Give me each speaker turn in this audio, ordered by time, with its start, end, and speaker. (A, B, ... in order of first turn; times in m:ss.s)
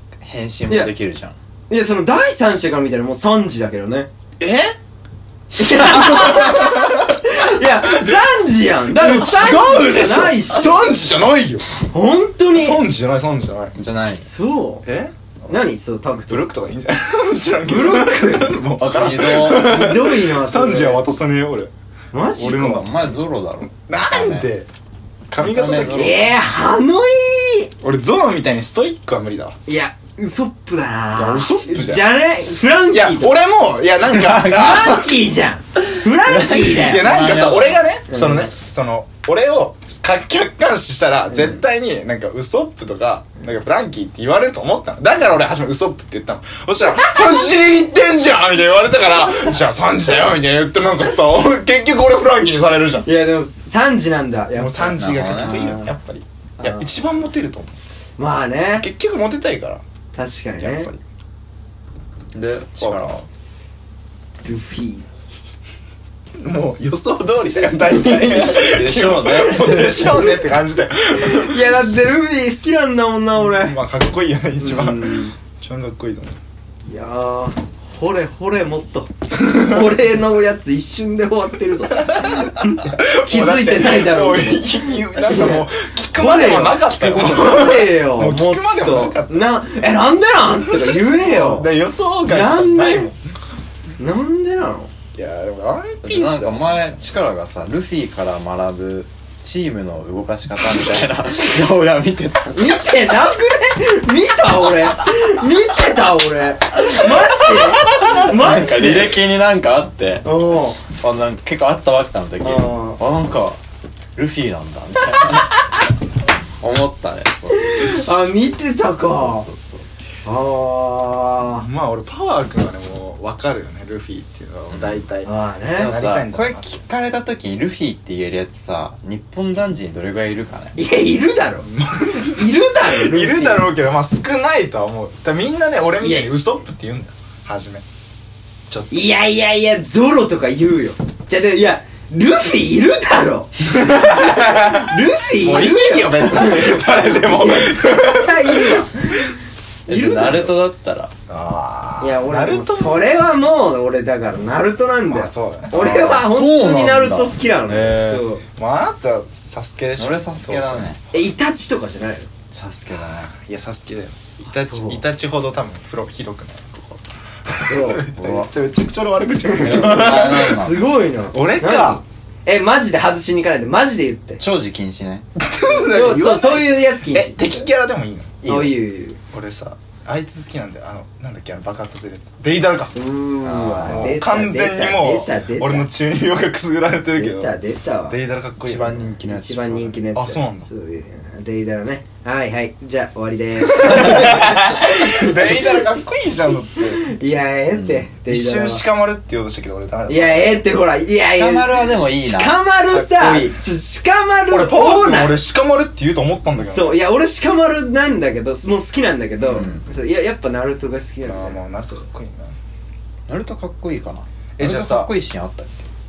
0:00.2-0:01.4 A
0:01.7-0:04.1 B
0:04.4-0:04.8 C
0:05.6-0:10.8 B
0:05.7-0:08.2 C
0:08.9-0:11.6 C
0:11.9-0:12.8 B
0:12.5-0:13.7 C
0:13.7-0:14.3 A
0:14.1-0:14.8 B
0:14.8-0:15.5 C
0:15.5-0:16.5 B
0:16.3-0:21.7 C
0:17.7-0:18.6 B
0:18.8-0:19.7 A
0:19.3-0:21.0 B
0:22.1-0:22.8 B
0:22.4-0:24.7 C
0:22.4-0:24.5 A
0:25.3-0:26.3 C
0:25.4-0:26.3 A
0:25.9-0:27.7 B
0:27.8-0:29.6 C
0:29.6-0:33.4 B
0:31.2-0:32.1 C
0:32.9-0:35.1 C
0:34.2-0:34.7 A
0:34.3-0:37.1 B
0:36.2-0:37.9 A
0:36.7-0:53.1 C
0:38.1-0:38.5 B
0:53.0-0:55.9 B
0:54.6-0:57.8 C
0:54.9-0:55.8 A
0:56.6-0:57.0 B
0:58.2-0:58.9 B
0:58.8-0:59.8 C
1:00.1-1:00.9 B
1:00.6-1:01.0 C
1:02.3-1:03.2 A
1:02.8-1:03.2 C
1:04.4-1:05.1 B
1:06.4-1:11.6 C
1:07.9-1:08.7 B
1:08.4-1:10.0 A
1:09.5-1:10.4 B
1:11.2-1:13.8 B
1:13.4-1:16.4 C
1:14.6-1:15.3 B
1:16.8-1:31.7 B
1:22.1-1:29.6 C
1:30.9-1:33.2 C
1:32.3-1:33.1 B
1:34.0-1:34.9 B
1:35.1-1:37.0 C
1:36.0-1:43.0 A
1:42.5-1:49.2 B
1:47.4-1:53.6 A
1:50.2-1:50.8 B
1:52.4-1:53.0 B
1:54.1-1:55.7 A
1:56.6-1:58.1 A
1:57.5-1:59.5 B
1:59.1-1:59.8 A
2:00.2-2:01.6 B
2:01.5-2:06.8 C
2:04.7-2:05.0 A
2:05.2-2:06.0 B
2:05.7-2:10.8 A
2:10.8-2:11.7 B
2:11.6-2:17.8 C
2:12.2-2:13.7 B
2:16.0-2:16.3 B
2:18.7-2:18.9 C
2:18.9-2:29.4 B
2:23.6-2:29.1 C
2:29.9-2:31.1 A
2:29.9-2:30.5 B
2:31.3-2:33.1 C
2:32.0-2:38.4 B
2:35.1-2:35.8 C
2:35.7-2:38.2 A
2:38.6-2:41.3 C
2:40.0-2:41.0 A
2:41.1-2:42.3 B
2:42.5-2:43.3 A
2:42.9-2:50.6 C
2:44.4-2:45.0 B
2:47.5-2:48.2 B
2:48.2-2:48.5 A
2:49.4-2:54.4 B
2:49.6-2:50.9 A
2:51.3-2:52.0 C
2:54.4-2:55.3 A
2:55.4-2:58.4 C
2:55.7-2:57.6 B
2:58.4-2:58.8 A
2:58.4-2:59.2 B
2:59.3-3:02.9 C
3:02.9-3:05.9 B
3:03.4-3:04.2 A
3:03.8-3:07.6 C
3:07.2-3:08.2 B
3:08.1-3:09.2 C
3:08.6-3:10.0 A
3:09.2-3:15.8 B
3:10.1-3:10.7 C
3:13.7-3:17.1 C
3:16.9-3:18.8 B
3:17.7-3:18.1 A
3:18.3-3:20.6 C
3:20.1-3:25.4 B
3:21.3-3:22.6 A
3:22.9-3:23.5 C
3:23.2-3:23.5 A
3:24.5-3:27.0 C
3:26.6-3:32.0 B
3:29.5-3:29.8 A
3:31.2-3:32.6 C
3:33.3-3:35.9 A
3:34.6-3:35.1 C